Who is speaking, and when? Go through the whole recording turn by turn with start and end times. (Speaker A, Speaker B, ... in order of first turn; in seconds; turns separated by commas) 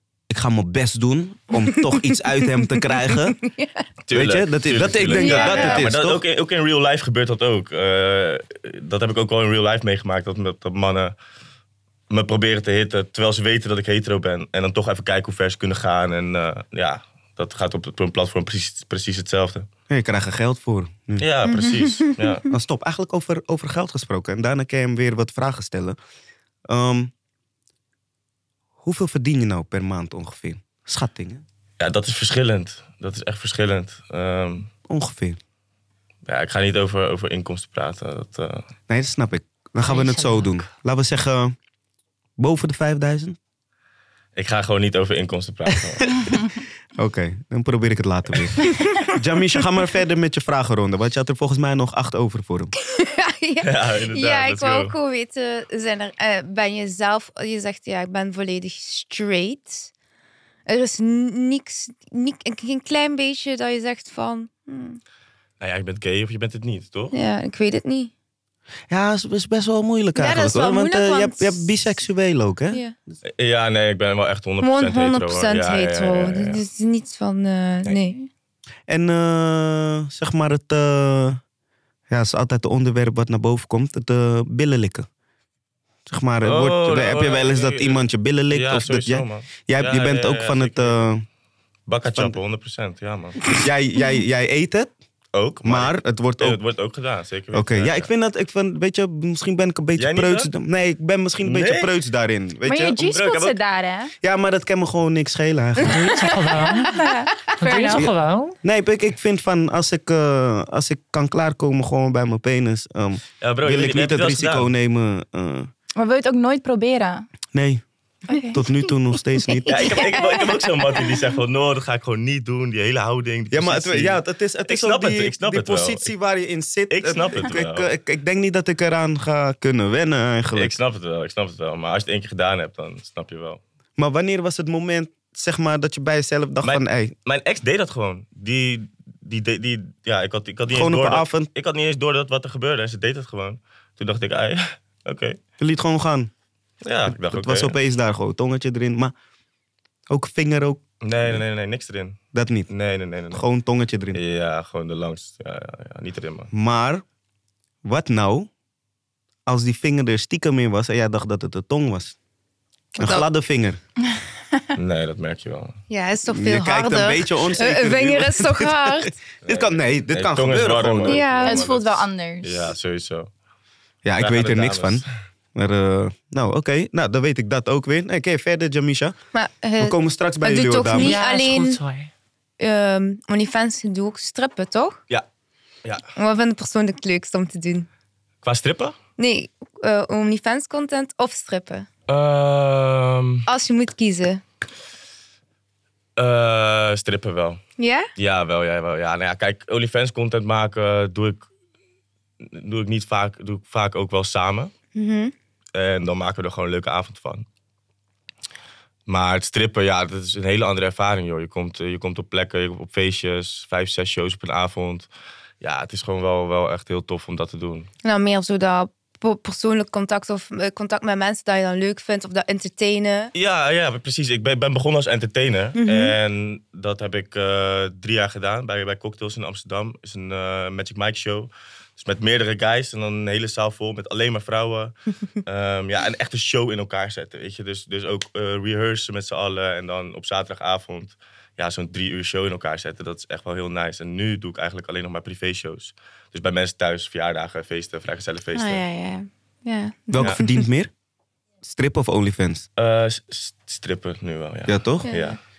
Speaker A: 0.3-3.4, Speaker B: 3.1-3.9, Speaker C: 4.0-11.1, Speaker A: 4.1-6.2, Speaker B: 5.1-5.8, Speaker C: 12.1-19.7, Speaker A: 19.9-21.3, Speaker C: 21.2-22.4, Speaker B: 21.4-22.4, Speaker A: 22.5-26.0, Speaker A: 26.7-27.1, Speaker A: 28.8-31.4, Speaker C: 31.8-34.7, Speaker A: 34.9-35.4, Speaker C: 36.2-38.6, Speaker A: 38.9-41.5, Speaker D: 39.8-40.7, Speaker A: 42.4-43.4, Speaker C: 44.4-46.1, Speaker A: 45.7-46.3, Speaker E: 46.2-46.5, Speaker A: 47.0-52.7, Speaker B: 52.8-59.9, Speaker C: 53.6-54.9, Speaker B: 60.7-65.0, Speaker C: 65.6-67.2, Speaker B: 67.1-68.1, Speaker A: 68.9-72.8, Speaker B: 70.1-71.9, Speaker C: 73.4-76.6, Speaker B: 74.6-78.3, Speaker A: 78.9-81.4, Speaker A: 82.1-85.0, Speaker A: 86.1-91.2, Speaker C: 86.4-91.1, Speaker C: 91.9-93.6, Speaker A: 93.5-94.9, Speaker C: 95.3-98.1, Speaker A: 95.6-96.6, Speaker A: 97.5-103.1, Speaker C: 100.0-100.5, Speaker C: 101.4-101.9, Speaker E: 102.6-104.1, Speaker C: 103.1-103.6, Speaker A: 104.2-106.3, Speaker D: 105.8-106.9, Speaker E: 106.9-108.0, Speaker D: 107.6-108.6, Speaker B: 107.7-108.0, Speaker A: 108.6-115.7, Speaker C: 113.4-114.7, Speaker E: 116.0-117.3, Speaker A: 117.5-117.8, Speaker E: 118.3-118.6, Speaker B: 118.3-118.9, Speaker A: 118.5-120.1, Speaker B: 119.4-120.4, Speaker C: 119.7-126.1, Speaker A: 123.5-130.7, Speaker C: 126.9-127.9, Speaker C: 130.5-133.6, Speaker A: 134.0-137.1, Speaker C: 136.6-145.4, Speaker A: 140.7-141.5, Speaker A: 145.6-146.3, Speaker C: 146.8-147.7, Speaker A: 147.0-149.1, Speaker A: 150.1-151.4, Speaker C: 151.0-152.2, Speaker A: 152.3-152.7, Speaker C: 152.7-153.4, Speaker A: 153.3-154.2, Speaker C: 154.1-156.5, Speaker A: 156.5-157.0, Speaker A: 157.8-158.5, Speaker A: 159.5-162.1, Speaker A: 162.9-163.8, Speaker B: 163.0-163.2, Speaker C: 164.8-165.8, Speaker B: 165.9-169.1, Speaker A: 166.3-171.2, Speaker C: 169.4-173.3, Speaker B: 171.0-171.7, Speaker E: 171.4-172.7, Speaker A: 174.0-179.2, Speaker C: 174.2-175.1, Speaker B: 179.3-181.8, Speaker A: 179.8-181.2, Speaker D: 180.9-182.1, Speaker B: 182.6-185.0, Speaker B: 186.2-187.9, Speaker C: 188.4-188.9, Speaker B: 189.2-191.9, Speaker C: 192.1-193.4, Speaker B: 193.5-194.4, Speaker C: 196.2-197.6, Speaker B: 197.8-198.1, Speaker C: 198.2-201.5, Speaker C: 202.4-204.7, Speaker B: 204.9-205.3, Speaker C: 205.7-207.4, Speaker C: 209.1-215.1, Speaker C: 215.6-217.9, Speaker B: 218.0-223.3, Speaker C: 223.3-248.8, Speaker B: 225.8-226.1, Speaker B: 248.5-250.6, Speaker A: 250.1-250.9, Speaker A: 251.6-252.7, Speaker C: 252.8-255.4, Speaker A: 254.7-255.1, Speaker B: 255.1-255.4